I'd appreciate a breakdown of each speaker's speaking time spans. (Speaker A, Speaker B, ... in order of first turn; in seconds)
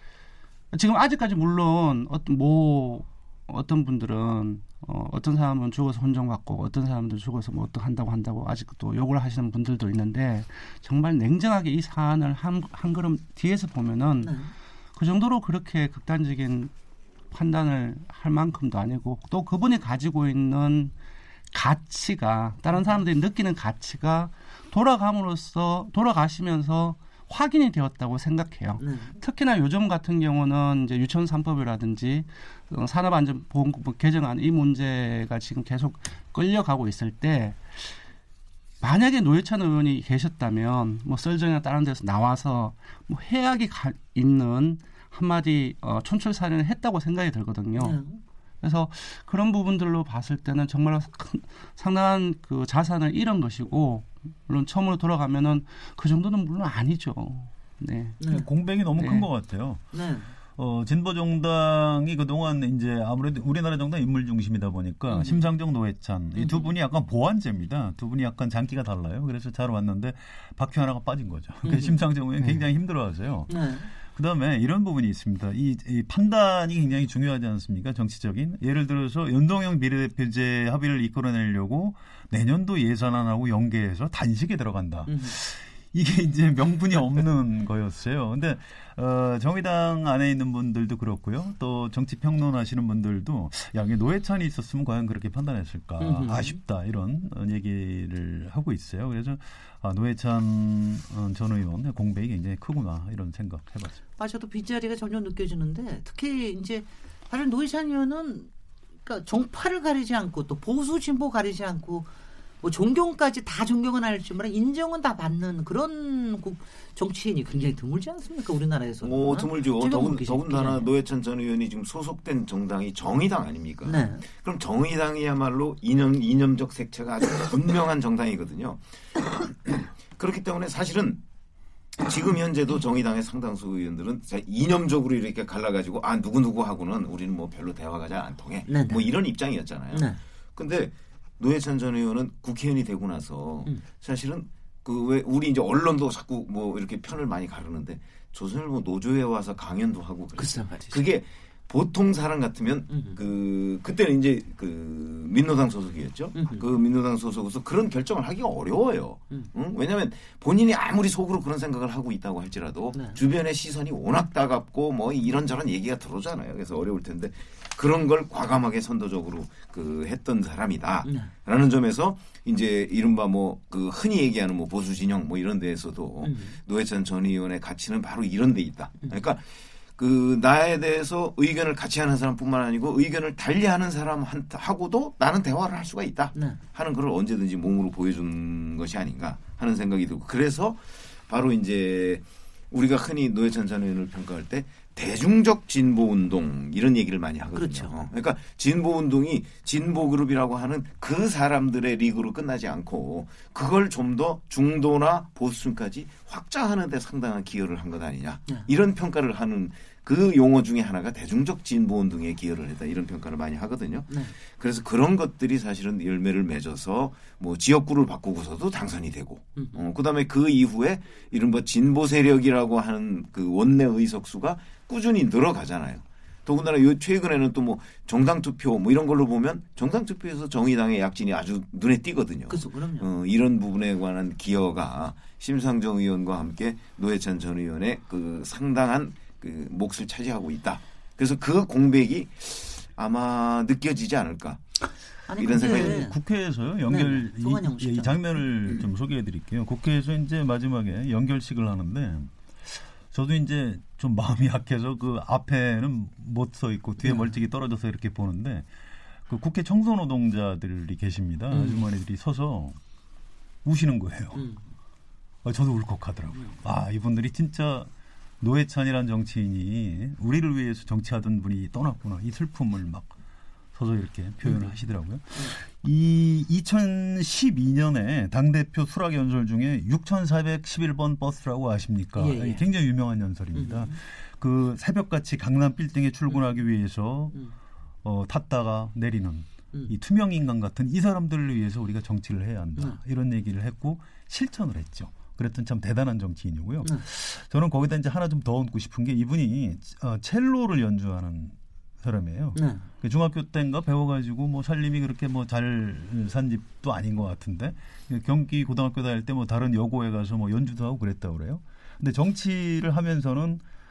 Speaker A: 0.7-14.3, 15.0-16.7, 17.3-20.9, 21.5-38.0, 38.8-48.0, 48.6-58.2, 59.0-59.3
Speaker B: 14.2-14.5, 28.8-29.2, 47.8-48.2, 58.2-58.5, 59.9-60.3, 65.1-65.4, 66.4-66.7, 71.6-72.0, 73.5-73.9, 85.1-85.3, 96.0-96.6, 104.2-108.5, 109.0-112.1, 112.6-120.9, 123.9-124.3, 138.7-139.1, 139.9-140.2, 150.4-151.0, 152.9-153.2, 156.3-156.7, 162.9-163.2, 171.1-171.3, 176.2-176.6, 186.3-186.6, 197.6-197.9, 219.6-219.8, 232.5-233.1, 245.3-246.2, 246.9-248.4, 257.0-257.3, 261.5-261.8, 264.4-264.6, 274.4-274.8, 282.2-282.6, 283.6-284.0, 302.6-302.9
Speaker C: 58.3-59.8, 60.6-104.0, 245.5-258.7, 259.3-262.8, 263.6-264.5, 265.4-267.9, 268.4-273.1, 273.7-287.4, 288.0-313.6
Speaker D: 119.0-131.2, 132.0-179.4, 180.0-244.6, 245.4-246.0